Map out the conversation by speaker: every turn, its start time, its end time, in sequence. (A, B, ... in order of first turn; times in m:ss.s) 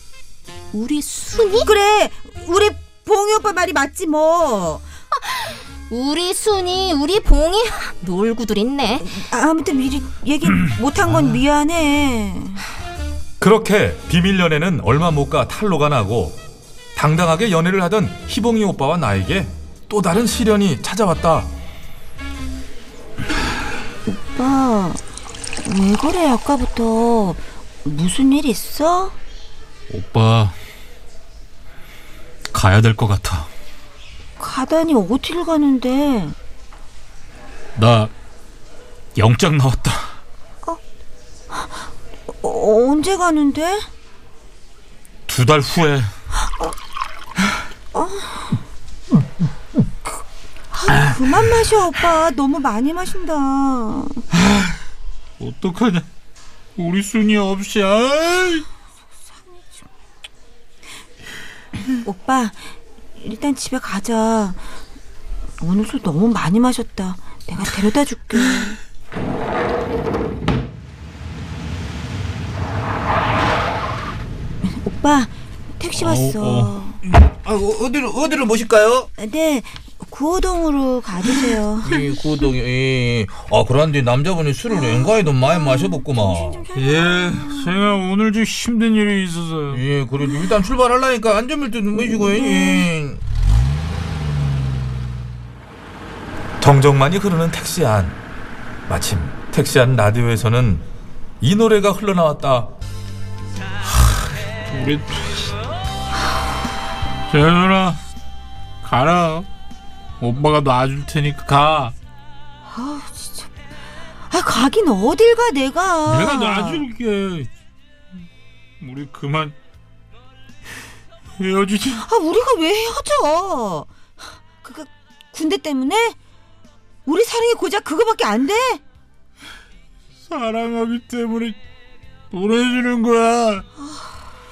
0:00.7-0:01.7 A
0:01.6-0:04.8 B
0:05.2-0:09.2 A
0:09.0-0:12.6 B
0:10.6-0:11.4 C
0:13.4-0:16.4 D
0:17.0-0:21.5 D
0:24.1-0:25.0 B
0:25.6-0:29.2 B
0:29.9-0:30.6 C
0:32.5-0:33.5 C
0:34.4-0:36.4 B
0:37.8-0:38.1 C
0:39.2-0:40.2 C
0:41.5-0:41.9 B
0:42.4-0:43.9 B
0:45.3-0:46.1 C
0:47.9-0:48.5 B
0:50.7-0:54.2 B
0:50.9-0:51.4 C
0:54.4-0:54.8 C
0:55.4-0:56.1 C
0:56.8-0:58.6 C
1:02.0-1:02.6 B
1:03.2-1:04.6 B
1:05.6-1:08.8 B
1:14.6-1:17.0 B
1:16.0-1:19.1 E
1:19.2-1:22.0 B
1:21.8-1:26.6 E
1:24.7-1:27.9 B
1:26.7-1:29.8 C
1:29.7-1:33.2 E
1:36.6-1:38.2 D
1:38.9-1:40.9 D
1:41.4-1:42.7 D
1:43.8-1:45.6 C
1:47.3-1:48.0 C
1:48.8-1:49.5 C
1:50.2-1:51.9 C
1:52.7-1:53.5 B
1:54.3-1:56.8 B
1:56.1-1:57.5 C
1:58.8-1:59.6 C
2:01.4-2:02.1 C
2:02.0-2:03.9 B
2:04.6-2:06.2 B
2:07.1-2:08.8 B
2:10.3-2:11.6 C
2:12.3-2:13.7 C